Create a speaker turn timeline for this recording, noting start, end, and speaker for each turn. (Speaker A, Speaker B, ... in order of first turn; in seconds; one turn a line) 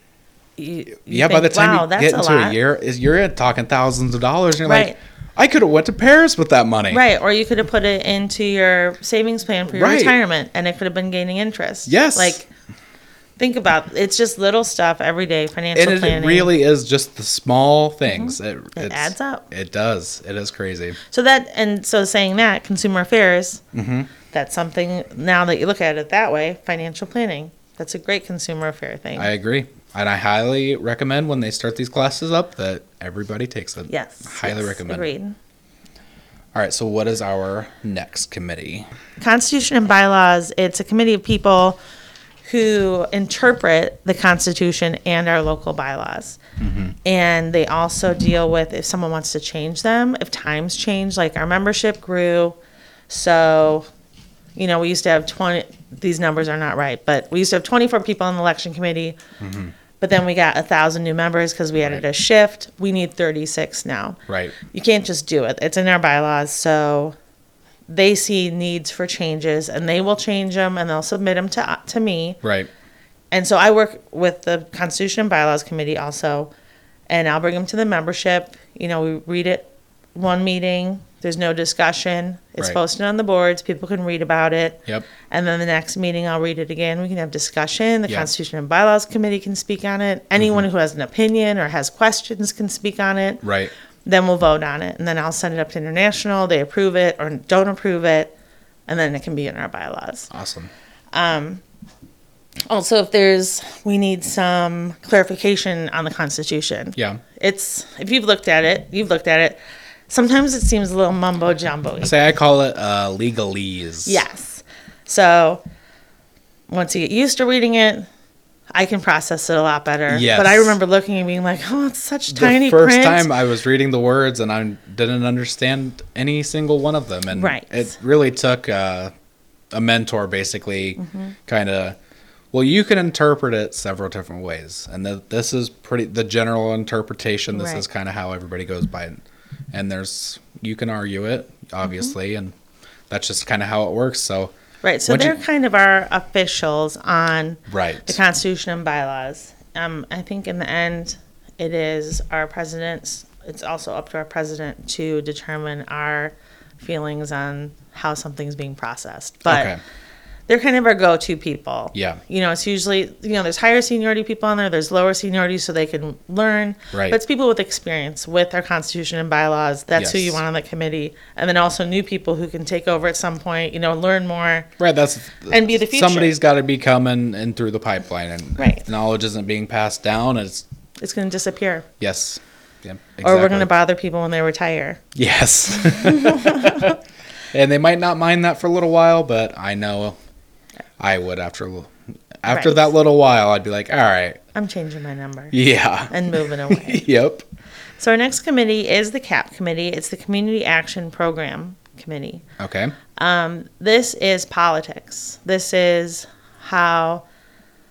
Speaker A: 0.6-2.6
Speaker B: 1.1-7.0
Speaker A: 4.6-5.0
Speaker A: 6.9-12.5
Speaker B: 9.7-10.2
Speaker B: 11.8-12.4
Speaker A: 13.4-16.5
Speaker B: 15.7-21.0
Speaker A: 18.1-19.4
Speaker A: 21.0-23.6
Speaker B: 23.7-24.1
Speaker A: 24.3-29.3
Speaker B: 29.1-35.1
Speaker A: 33.9-35.4
Speaker B: 36.5-38.9
Speaker A: 39.2-41.8
Speaker A: 42.4-46.4
Speaker B: 46.6-47.0
Speaker A: 47.0-52.6
Speaker A: 53.1-53.9
Speaker A: 54.5-59.2
Speaker B: 59.4-59.7
Speaker A: 60.0-67.2
Speaker B: 64.3-64.5
Speaker A: 67.9-72.4
Speaker B: 72.4-72.7
Speaker A: 73.3-76.5
Speaker A: 77.1-93.4
Speaker B: 90.4-90.6
Speaker B: 93.4-93.7
Speaker A: 94.0-98.3
Speaker A: 98.9-100.3
Speaker B: 100.3-100.7
Speaker A: 101.1-101.6
Speaker A: 102.7-112.1
Speaker B: 106.9-107.2
Speaker B: 112.0-114.2
Speaker A: 114.0-115.6
Speaker A: 116.7-118.1
Speaker A: 118.7-123.3
Speaker B: 120.1-120.8
Speaker B: 122.3-129.1
Speaker A: 127.3-127.9
Speaker B: 129.7-132.0
Speaker A: 131.0-131.3
Speaker B: 132.5-139.2
Speaker A: 137.5-137.8
Speaker B: 139.7-142.5
Speaker A: 141.8-142.1
Speaker B: 143.1-144.5
Speaker A: 144.8-159.7
Speaker B: 145.1-145.4
Speaker B: 147.7-148.2
Speaker B: 159.4-159.8
Speaker A: 160.5-174.7
Speaker B: 161.9-162.2
Speaker B: 166.9-167.2
Speaker B: 169.9-170.4
Speaker B: 174.8-180.6
Speaker A: 175.5-176.3
Speaker A: 178.6-178.8
Speaker A: 181.0-181.9
Speaker B: 182.0-183.7
Speaker A: 183.2-185.0
Speaker B: 185.1-187.0
Speaker A: 185.9-186.9
Speaker B: 187.5-190.2
Speaker B: 191.0-194.4
Speaker A: 192.5-192.9
Speaker A: 194.5-195.6
Speaker B: 195.5-197.4
Speaker A: 196.1-197.0
Speaker A: 198.0-202.4
Speaker B: 202.6-202.9
Speaker A: 203.2-207.2